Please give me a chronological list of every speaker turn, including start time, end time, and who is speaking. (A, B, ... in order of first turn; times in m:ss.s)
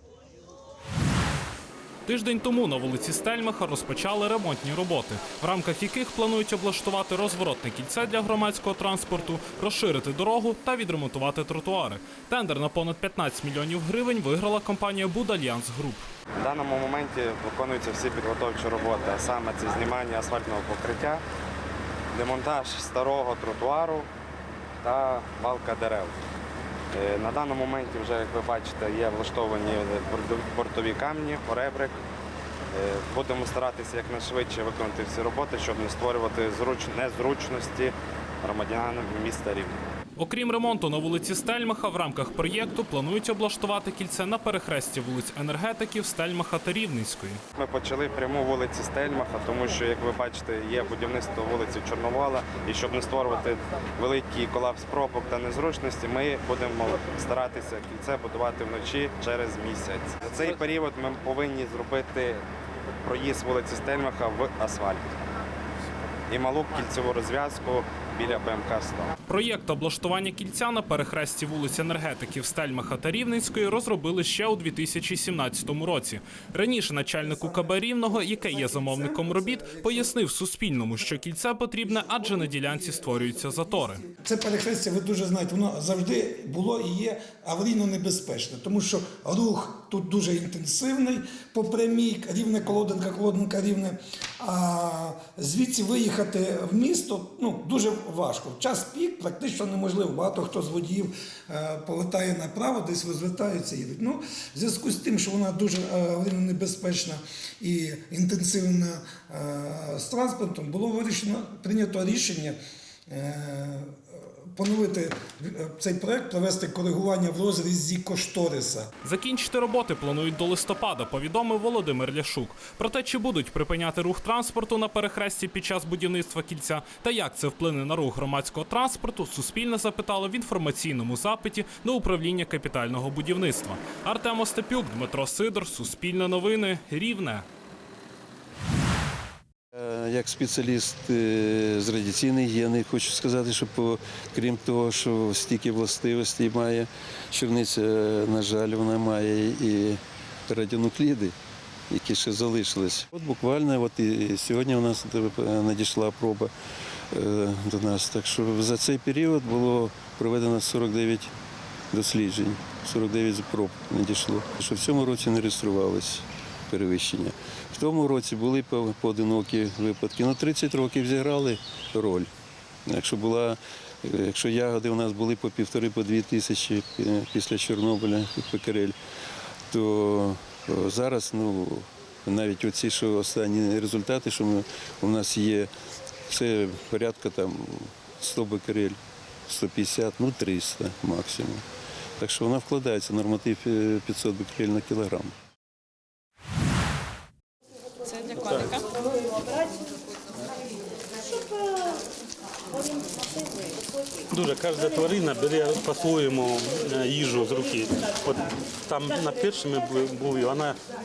0:02.1-0:16.1 A
0:16.4-0:21.2 B
0:22.1-0:24.1 B
0:24.8-0:26.2 B
0:26.9-0:32.0 B
0:32.7-0:39.8 B
0:40.2-0:47.4 A
0:47.6-1:02.4 B
1:03.0-1:05.1 B
1:06.3-1:09.1 B
1:09.3-1:24.0 A
1:18.7-1:20.1 C
1:24.2-1:52.6 C
1:53.1-1:54.0 C
1:54.6-1:58.9 C
1:59.0-2:17.4 A
2:19.8-2:31.4 D
2:31.9-2:36.5 D
2:37.1-2:41.3 D
2:41.9-2:52.3 D
2:52.9-2:59.0 D
2:59.7-3:05.7 D
3:06.3-3:11.6 D
3:12.2-3:15.3 D
3:18.4-3:18.8 E
3:24.3-3:30.8 E